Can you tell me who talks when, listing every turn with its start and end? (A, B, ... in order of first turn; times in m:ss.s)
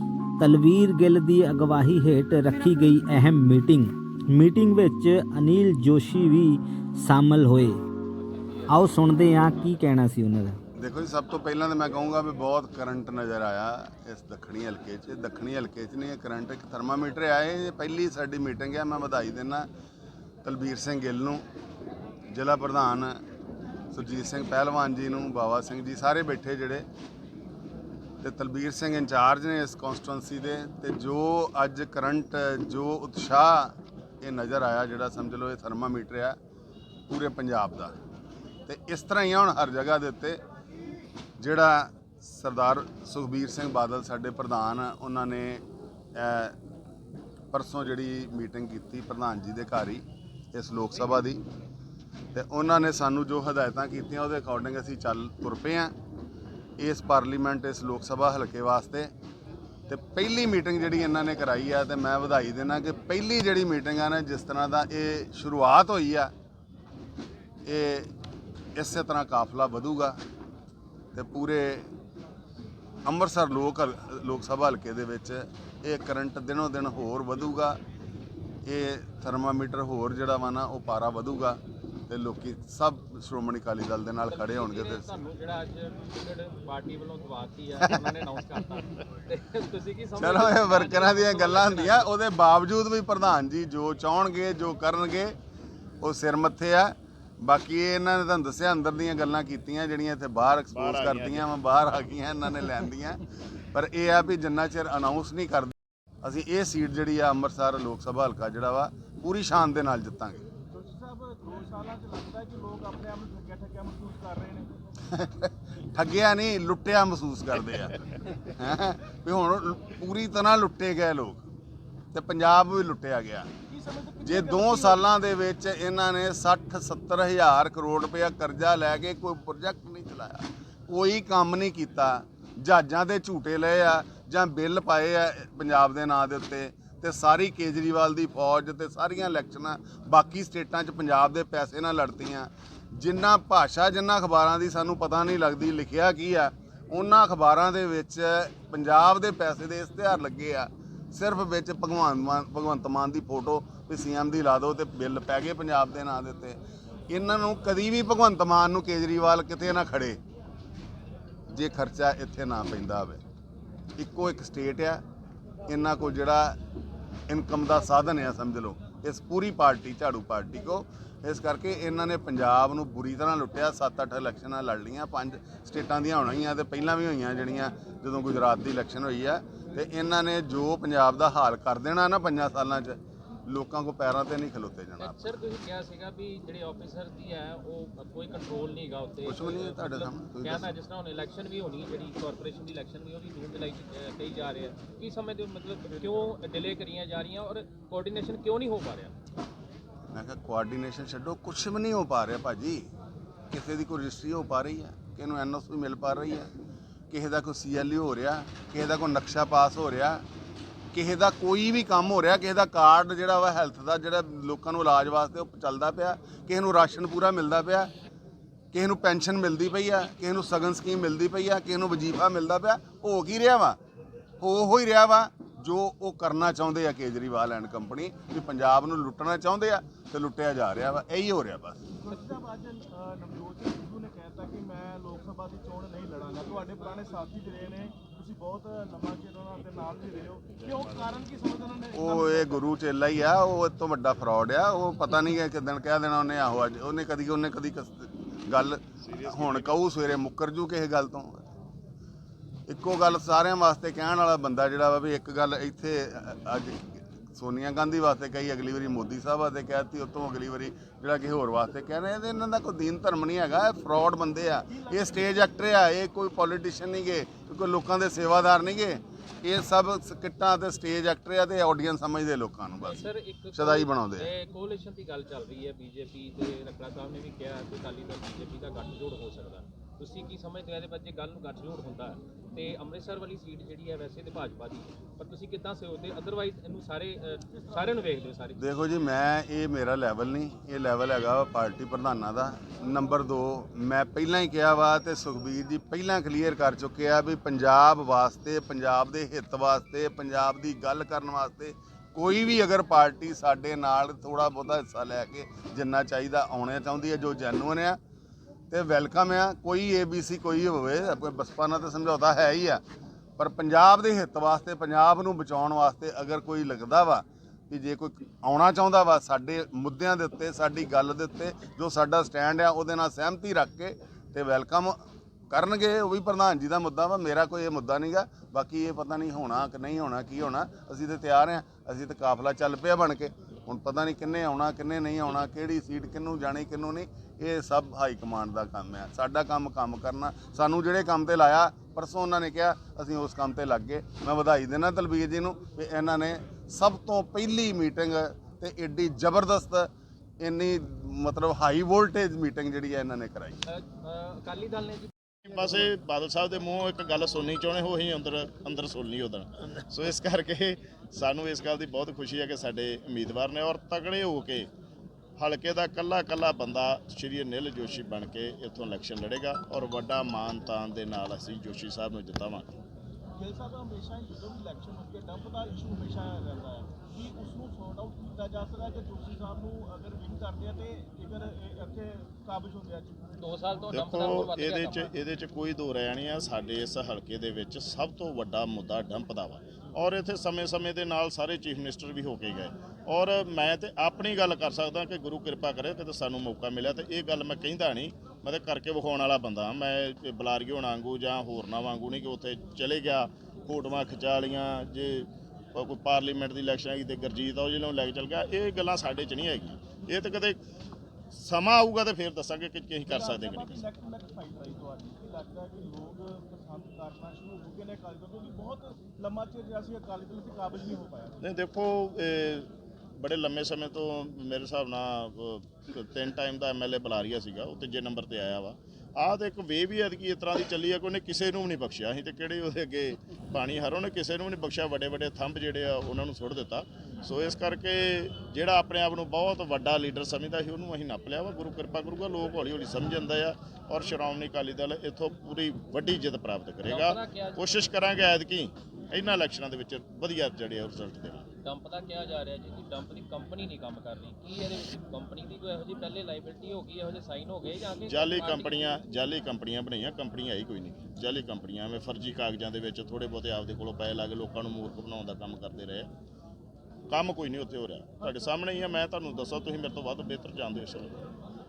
0:00.4-0:07.8 A
0:08.7-0:10.6 A
0:10.8-0:19.7 B
0:20.4-0:21.4 B
0:22.3-0:23.2 B
0:23.9-0:26.8 B
0:28.2-0:36.4 B
0:37.1-0:37.9 B
0:38.7-0:40.4 B
0:41.4-0:45.6 B
0:46.2-0:46.6 B
0:47.5-0:51.4 B
0:52.3-0:55.9 B
0:56.8-0:59.1 B
0:59.9-1:06.3 B
1:07.6-1:08.1 B
1:08.8-1:10.2 B
1:11.1-1:11.9 B
1:13.1-1:17.8 B
1:18.7-1:25.2 B
1:24.3-1:32.1 C
1:30.2-1:35.3 B
1:36.0-1:43.2 B
1:40.7-1:41.5 D
1:43.7-1:50.5 B
1:50.7-1:54.7 E
1:55.1-1:58.0 B
1:58.6-2:01.4 B
2:02.1-2:03.5 B
2:03.7-2:05.0 E
2:04.2-2:36.6 B
2:37.1-2:40.2 B
2:41.5-2:43.2 B
2:44.0-2:45.0 B
2:45.7-2:46.6 B
2:47.3-3:05.3 B
3:05.0-3:19.1 C
3:09.2-3:10.7 B
3:20.1-3:22.9 B
3:23.5-3:26.5 B
3:27.1-3:30.2 B
3:30.9-3:37.9 B
3:38.7-3:43.8 B
3:44.4-3:51.8 B
3:51.9-4:02.6 E
4:00.6-4:01.1 D
4:01.9-4:11.4 B
4:09.0-4:09.8 D
4:12.7-4:34.3 B
4:24.7-4:25.3 E
4:32.8-4:48.7 C
4:47.5-4:48.2 E
4:48.6-5:08.0 B
5:08.7-5:12.8 B
5:13.4-5:25.0 B
5:25.5-5:53.6 B
5:53.7-5:55.1 C
5:55.4-6:04.7 D
6:05.4-6:12.8 D
6:13.4-6:23.2 E
6:23.4-6:25.1 C
6:23.9-6:50.6 D
6:51.3-6:53.9 D
6:53.1-7:01.4 E
7:01.4-7:31.5 D
7:26.8-7:27.9 C
7:31.6-7:39.0 C
7:38.1-7:46.1 D
7:47.1-7:51.2 D
7:48.2-7:48.5 E